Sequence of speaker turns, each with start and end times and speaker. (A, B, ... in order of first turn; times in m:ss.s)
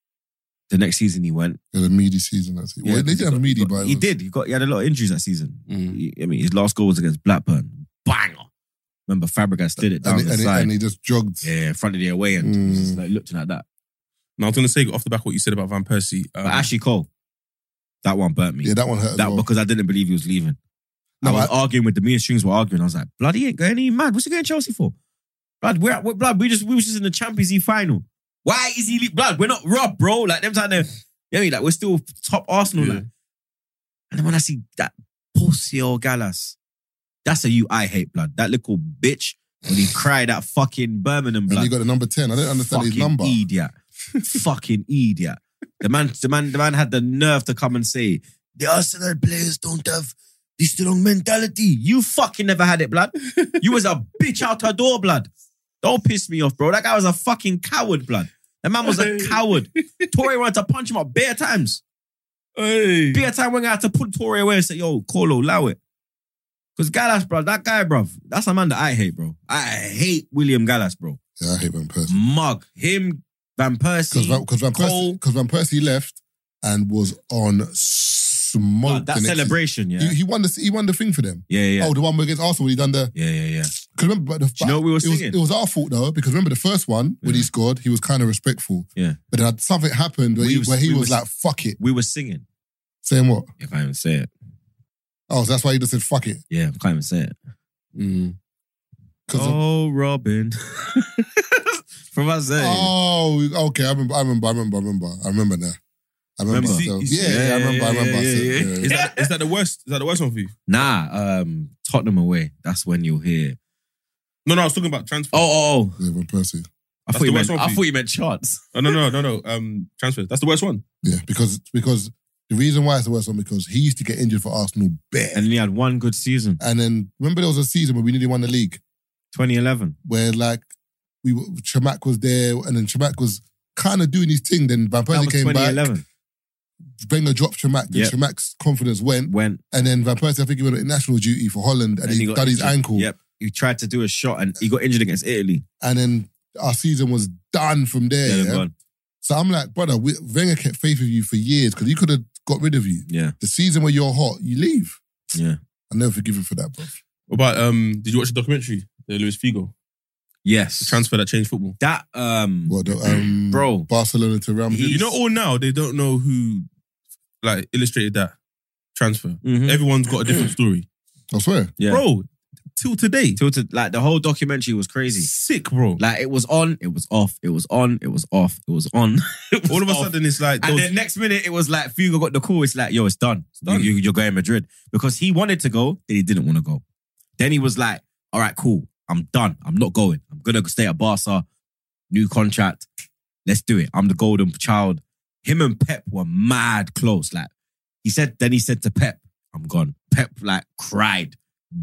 0:00.7-0:01.6 A
0:01.7-0:04.1 B
0:02.8-0:08.5 A
0:05.7-0:06.0 C
0:09.1-0:10.7 A
0:09.8-0:11.5 B
0:11.4-0:13.6 A
0:12.4-0:13.0 B
0:14.4-0:16.7 C
0:16.4-0:17.1 A
0:18.0-0:20.6 A
0:18.6-0:19.5 B
0:21.2-0:21.5 B
0:21.2-0:24.9 A
0:25.6-0:33.0 A
0:32.8-0:33.1 C
0:34.1-0:36.6 A
0:37.2-0:41.7 A
0:41.5-0:43.4 B
0:42.6-0:55.3 A
0:55.8-1:01.8 A
0:58.8-1:00.1 C
1:02.6-1:03.2 C
1:03.1-1:05.8 A
1:06.8-1:11.2 A
1:11.4-1:12.2 B
1:12.1-1:15.2 A
1:14.1-1:23.1 B
1:18.8-1:20.2 A
1:21.5-1:21.9 A
1:23.1-1:23.7 A
1:23.8-1:31.8 B
1:24.6-1:25.4 A
1:27.2-1:27.5 A
1:30.4-1:31.2 A
1:31.8-1:32.4 A
1:33.0-1:33.5 B
1:33.6-1:34.3 A
1:35.3-1:36.4 B
1:36.5-1:37.3 A
1:38.0-1:38.4 C
1:39.3-1:39.6 B
1:39.3-1:42.9 A
1:42.6-1:45.8 B
1:46.4-1:48.9 B
1:46.5-1:49.3 A
1:46.6-1:47.4 C
1:48.8-1:50.5 C
1:50.7-1:53.6 A
1:54.4-1:55.4 C
1:55.3-1:56.0 A
1:56.0-1:56.7 B
1:57.1-1:58.6 A
1:57.1-1:57.8 C
1:58.7-2:00.8 C
2:01.0-2:05.4 B
2:05.3-2:06.6 A
2:06.6-2:08.8 B
2:09.3-2:10.0 A
2:10.0-2:10.6 B
2:11.2-2:15.9 B
2:15.1-2:16.0 A
2:17.0-2:23.1 B
2:17.9-2:18.1 A
2:19.3-2:19.6 A
2:22.0-2:25.6 A
2:25.8-2:28.6 B
2:28.2-2:28.7 A
2:29.2-2:35.0 B
2:33.1-2:33.3 A
2:35.3-2:35.6 A
2:35.9-2:37.0 B
2:37.3-2:39.7 C
2:40.4-2:41.0 A
2:40.8-2:41.8 C
2:41.8-2:42.8 A
2:42.7-2:45.1 B
2:43.5-2:43.9 A
2:44.7-2:45.1 A
2:44.9-2:46.7 C
2:47.4-2:48.3 C
2:48.9-2:50.9 C
2:49.4-2:49.8 A
2:51.3-2:51.7 B
2:51.8-2:52.0 A
2:51.9-2:52.2 C
2:52.8-2:53.4 C
2:53.4-2:55.3 A
2:55.1-2:56.0 C
2:56.0-3:06.8 A
2:59.7-3:00.9 C
3:03.6-3:03.9 C
3:07.4-3:11.4 A
3:12.1-3:12.9 A
3:13.4-3:17.5 A
3:18.0-3:21.4 A